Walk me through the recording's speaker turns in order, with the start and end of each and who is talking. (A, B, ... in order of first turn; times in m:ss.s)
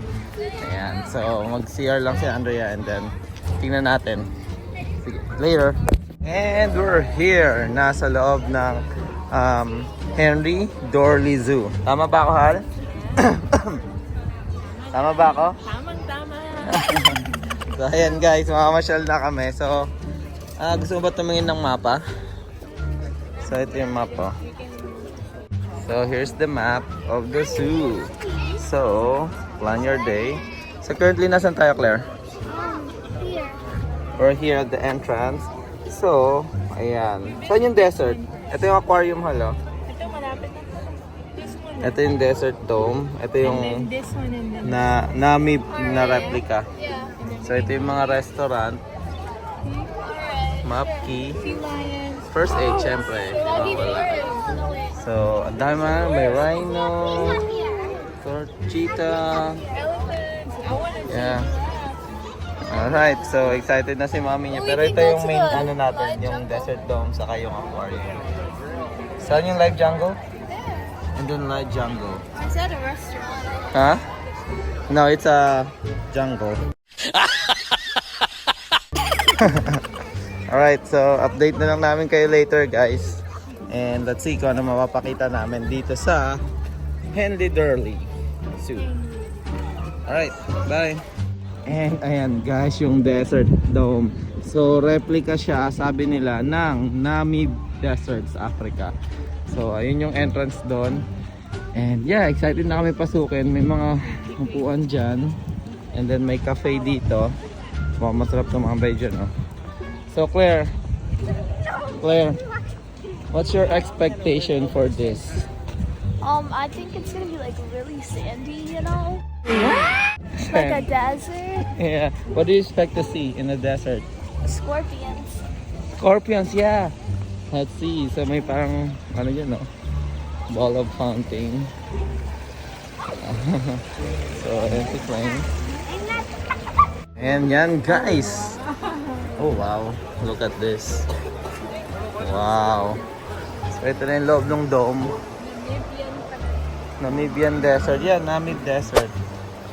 0:00.6-0:04.3 A
0:05.0-0:12.6 A
0:13.2-0:13.8 A
0:14.9-0:15.6 A
0:15.6-0:17.1 B
0:16.6-0:19.9 A
0:20.6-0:22.0 A
0:23.4-0:24.4 A
0:23.8-0:25.1 B
0:25.8-0:32.1 A
0:32.5-0:33.6 C
0:34.2-0:39.6 A
0:37.4-0:38.5 B
0:39.9-0:42.1 B
0:41.8-0:43.9 A
0:43.4-0:44.9 B
0:44.6-0:46.7 A
0:45.7-0:47.9 B
0:47.4-0:48.8 A
0:49.6-0:54.7 B
0:50.6-0:51.4 A
0:52.3-0:54.2 A
0:55.0-0:57.5 A
0:57.5-0:58.0 C
0:58.2-0:59.6 A
0:59.7-1:02.0 B
1:01.1-1:01.5 A
1:02.7-1:08.2 A
1:04.5-1:06.6 C
1:09.2-1:10.2 A
1:11.2-1:12.2 A
1:12.4-1:13.6 C
1:13.7-1:14.0 A
1:14.9-1:17.8 A
1:19.3-1:19.8 A
1:20.5-1:26.4 A
1:27.1-1:28.1 A
1:28.6-1:28.9 A
1:30.1-1:31.0 A
1:31.7-1:38.9 A
1:39.5-1:41.0 A
1:41.8-1:45.3 A
1:45.9-1:47.3 A
1:48.0-1:49.3 A
1:50.1-1:50.7 A
1:52.0-1:52.4 A
1:53.3-1:55.5 A
1:56.2-1:59.3 C
2:00.4-2:00.9 A
2:00.4-2:01.7 C
2:01.8-2:04.1 A
2:04.4-2:05.4 C
2:06.0-2:06.9 A
2:07.5-2:09.7 A
2:10.5-2:11.7 A
2:13.2-2:13.8 A
2:14.4-2:15.5 A
2:17.2-2:18.6 A
2:19.4-2:21.1 A
2:22.2-2:23.0 A
2:23.7-2:25.1 A
2:25.4-2:26.6 B
2:27.0-2:29.2 A